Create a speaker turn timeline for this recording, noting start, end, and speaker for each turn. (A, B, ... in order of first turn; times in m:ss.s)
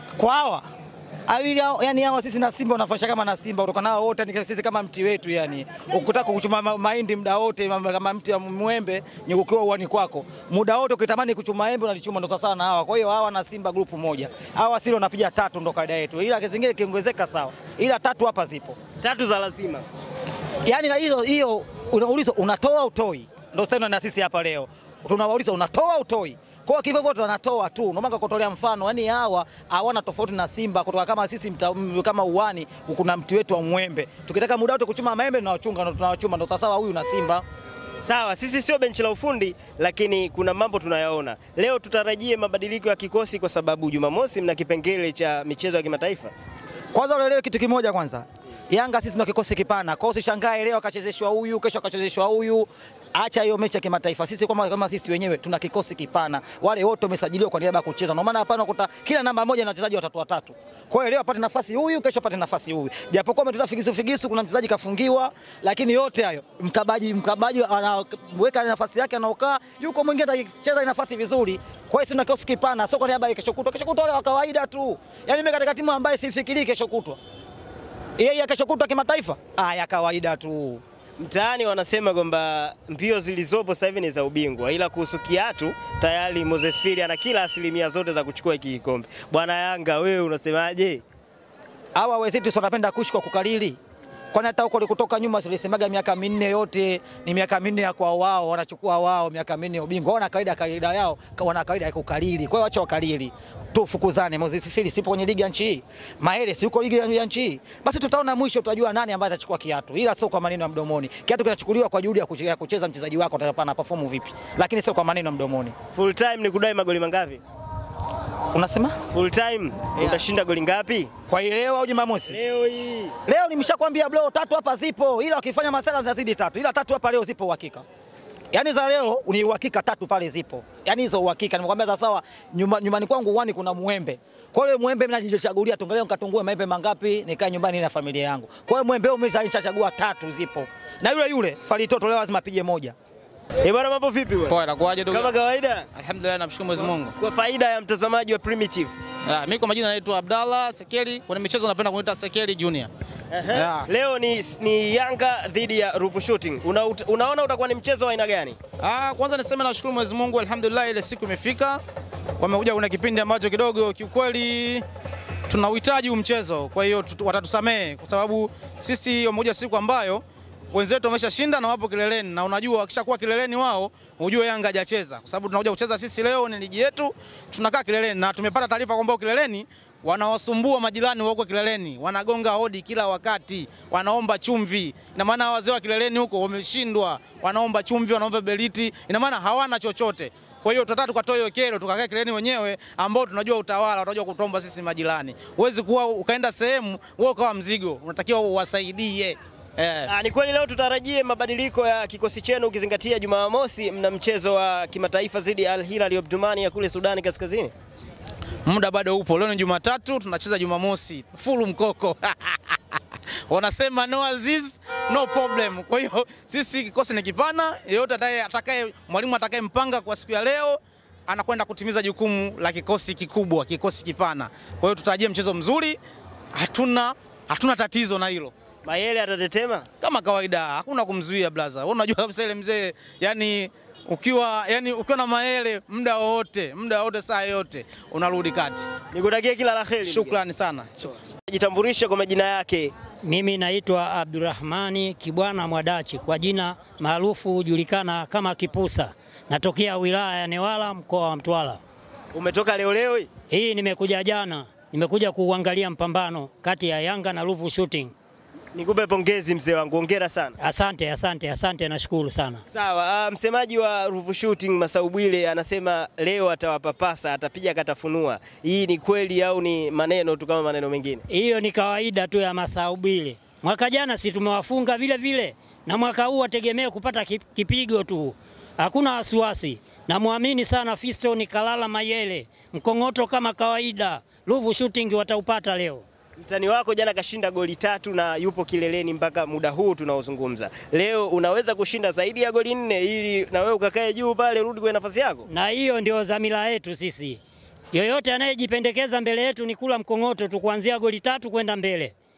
0:00.2-0:00.6 A
0:01.3-0:18.8 A
0:19.0-0:19.9 B
0:20.7-0:37.4 A
0:38.0-0:46.3 B
0:46.9-1:17.2 A
1:18.2-1:20.8 A
1:21.2-1:31.0 B
1:32.0-1:33.8 A
1:34.3-1:55.8 A
1:55.9-1:57.4 B
1:58.5-1:59.0 A
1:59.1-2:01.1 B
2:00.0-2:00.2 A
2:01.3-2:02.4 A
2:02.3-2:03.2 B
2:03.3-2:07.8 A
2:08.5-2:23.0 A
2:23.6-2:25.9 B
2:24.5-2:25.3 C
2:25.9-2:27.2 C
2:26.8-2:28.9 B
2:29.2-2:32.9 C
2:33.3-2:38.6 B
2:33.5-2:33.9 C
2:38.8-2:41.8 C
2:42.4-2:44.8 C
2:45.5-3:20.1 C
3:20.1-3:27.7 B
3:28.7-3:32.8 C
3:33.5-3:46.0 C
3:46.6-3:48.5 C
3:48.8-3:49.9 B
3:50.0-3:58.9 C
3:59.1-4:00.4 B
4:00.2-4:01.1 C
4:01.5-4:02.9 B
4:03.2-4:11.8 D
4:12.3-4:13.3 B
4:13.5-4:18.1 D
4:18.7-4:20.6 B
4:20.6-4:22.6 D
4:22.7-4:31.3 B
4:31.3-4:46.1 D
4:46.4-4:55.5 B
4:55.5-4:57.4 D
4:57.9-5:02.1 D